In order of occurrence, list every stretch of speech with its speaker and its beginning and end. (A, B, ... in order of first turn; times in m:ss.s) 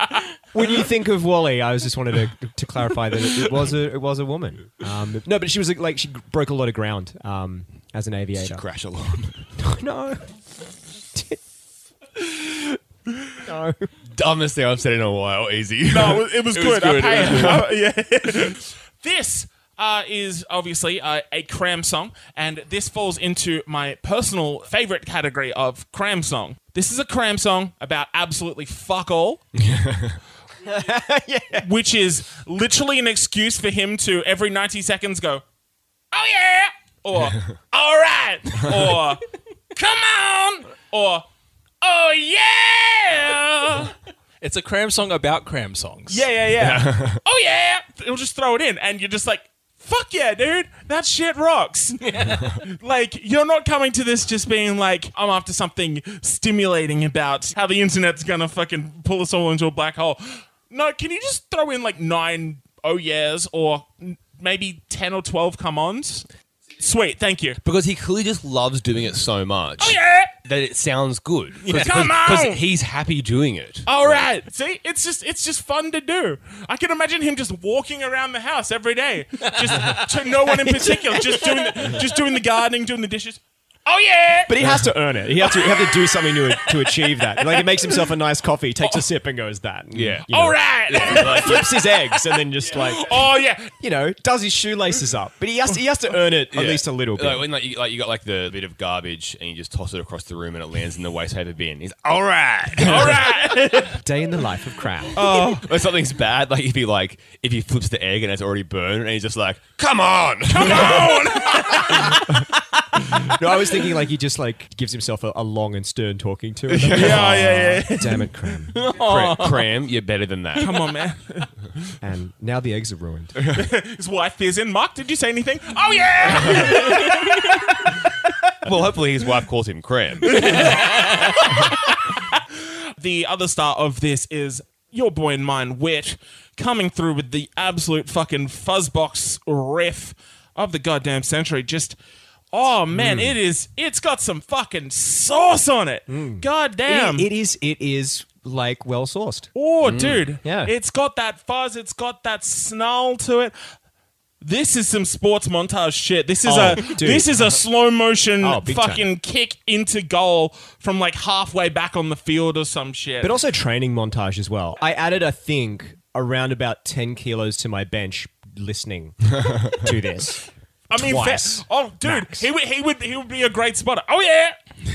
0:00.5-0:08.6 A
0:08.4-0:09.4 B
0:09.6-0:10.3 A
0:11.1-0:11.4 A
0:13.4-0:13.9 A
0:14.1-0:16.3 B
0:15.9-0:29.4 C
0:16.5-0:17.6 D
0:17.2-0:17.6 B
0:29.6-0:30.2 B
0:30.6-0:31.7 A
0:31.6-0:35.4 C
0:36.1-0:39.2 C
0:39.7-0:41.2 C
0:41.8-0:43.9 C
0:44.4-0:46.3 D
0:46.1-1:06.2 C
0:46.6-0:47.2 B
0:52.0-0:52.6 D
1:06.8-1:07.6 C
1:07.6-1:14.3 B
1:09.8-1:10.3 C
1:11.6-1:12.1 D
1:11.7-1:12.6 C
1:13.9-1:24.5 C
1:19.4-1:20.1 D
1:24.5-1:37.4 A
1:25.4-1:28.0 C
1:29.9-1:30.3 B
1:30.3-1:33.7 C
1:30.8-1:31.8 B
1:36.5-1:43.8 B
1:42.8-1:44.0 C
1:43.9-1:45.2 A
1:45.2-1:45.7 C
1:45.2-1:52.2 B
1:50.5-1:52.3 C
1:53.2-1:58.8 A
1:56.7-1:57.5 B
1:56.9-1:58.3 C
1:58.8-2:00.9 B
1:58.9-1:59.6 D
2:00.6-2:01.5 C
2:02.0-2:03.4 A
2:03.4-2:03.6 B
2:03.5-2:08.3 C
2:06.5-2:06.8 B
2:08.6-2:10.8 B
2:10.2-2:22.0 C
2:22.5-2:27.3 C
2:22.9-2:23.3 A
2:26.1-2:29.5 A
2:29.5-2:33.5 C
2:29.8-2:30.3 B
2:30.4-2:30.7 A
2:34.4-2:43.3 C
2:36.4-2:37.4 A
2:38.4-2:39.0 A
2:43.2-2:52.5 A
2:49.3-2:49.8 B
2:50.9-2:54.6 C